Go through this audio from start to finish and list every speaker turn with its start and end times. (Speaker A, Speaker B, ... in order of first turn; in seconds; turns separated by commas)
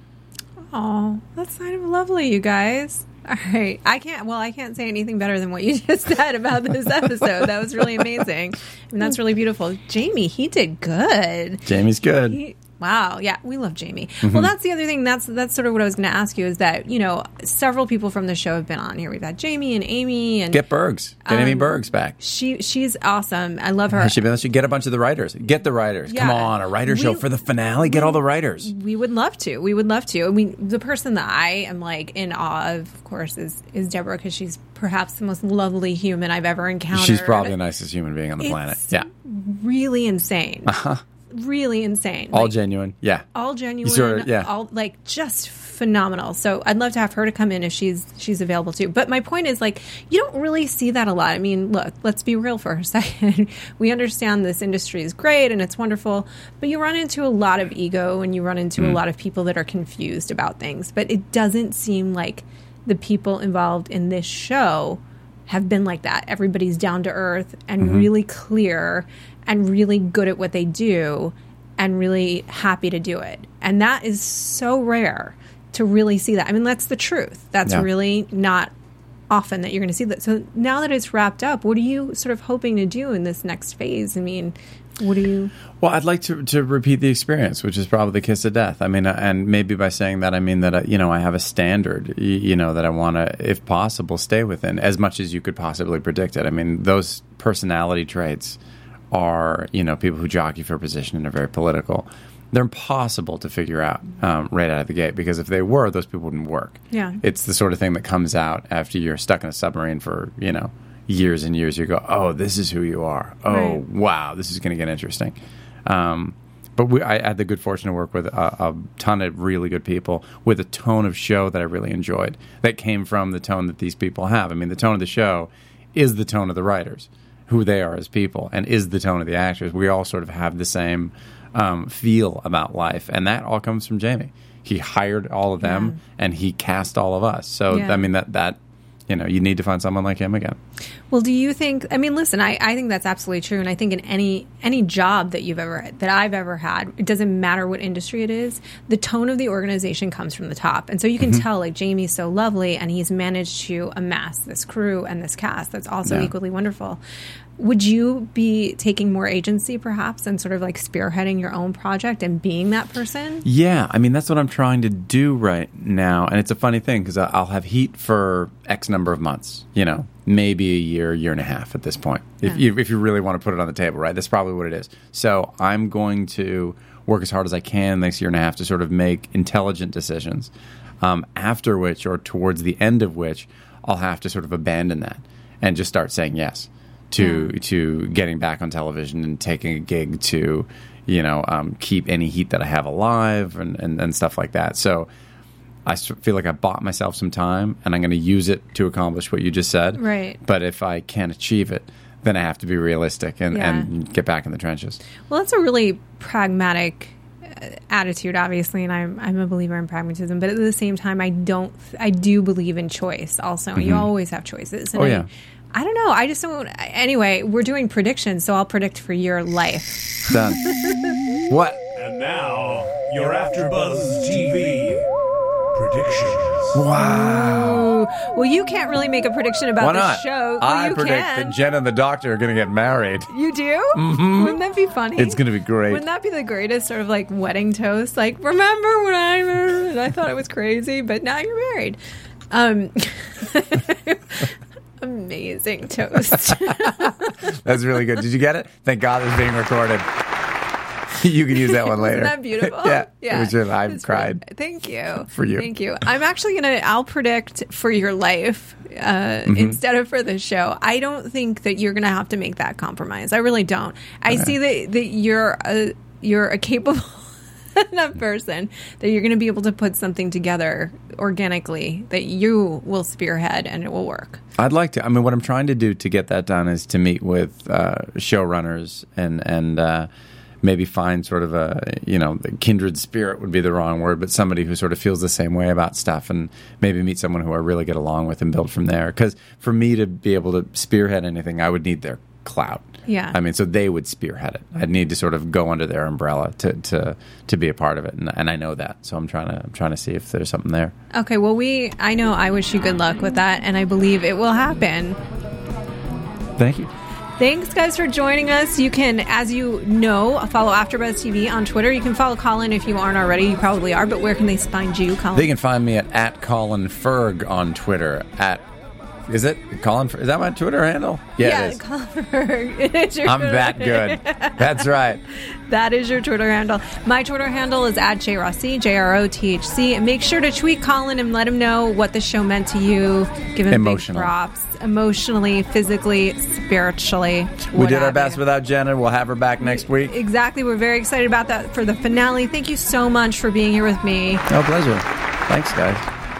Speaker A: 0.7-11.7, Speaker B: 11.7-12.4, Speaker A: 12.3-20.6, Speaker B: 14.2-14.5, Speaker B: 20.5-22.1, Speaker A: 21.2-24.2, Speaker B: 23.9-28.7, Speaker A: 26.1-27.2, Speaker A: 27.8-37.5, Speaker B: 36.9-39.1, Speaker A: 38.4-40.8, Speaker B: 40.6-41.0, Speaker A: 41.3-42.5, Speaker B: 42.3-43.2, Speaker A: 43.3-78.7, Speaker B: 43.8-44.5, Speaker B: 67.8-68.1, Speaker A: 79.3-85.5, Speaker B: 85.8-98.6, Speaker B: 99.1-138.6, Speaker A: 106.9-107.2, Speaker A: 113.5-113.8, Speaker A: 135.6-136.0, Speaker A: 137.7-138.1, Speaker B: 139.1-140.6, Speaker A: 141.1-157.0, Speaker B: 156.0-156.3, Speaker A: 157.6-163.4, Speaker B: 163.4-195.1, Speaker A: 187.2-187.5, Speaker B: 195.8-205.0, Speaker A: 199.9-200.4, Speaker A: 203.5-203.9, Speaker A: 205.3-221.2, Speaker B: 213.8-214.1, Speaker B: 214.9-215.3, Speaker B: 220.3-220.7, Speaker B: 221.5-221.8, Speaker C: 222.0-225.1, Speaker C: 225.7-226.8, Speaker B: 226.7-227.9, Speaker A: 227.2-231.6, Speaker B: 229.8-233.3, Speaker A: 233.3-242.0, Speaker B: 233.9-234.6, Speaker B: 235.2-236.0, Speaker A: 242.5-247.4, Speaker B: 246.5-250.2, Speaker B: 251.1-254.4, Speaker A: 251.7-274.4, Speaker B: 255.3-255.7, Speaker B: 259.4-259.8, Speaker B: 274.6-280.1, Speaker B: 280.6-300.9, Speaker A: 293.1-293.4, Speaker A: 301.1-305.2, Speaker B: 306.6-306.9, Speaker A: 307.4-315.5, Speaker B: 315.3-318.6, Speaker B: 319.3-321.8, Speaker A: 321.4-338.4, Speaker B: 323.2-325.2, Speaker B: 333.7-334.3, Speaker B: 337.7-340.1, Speaker A: 339.6-344.4, Speaker B: 344.5-346.0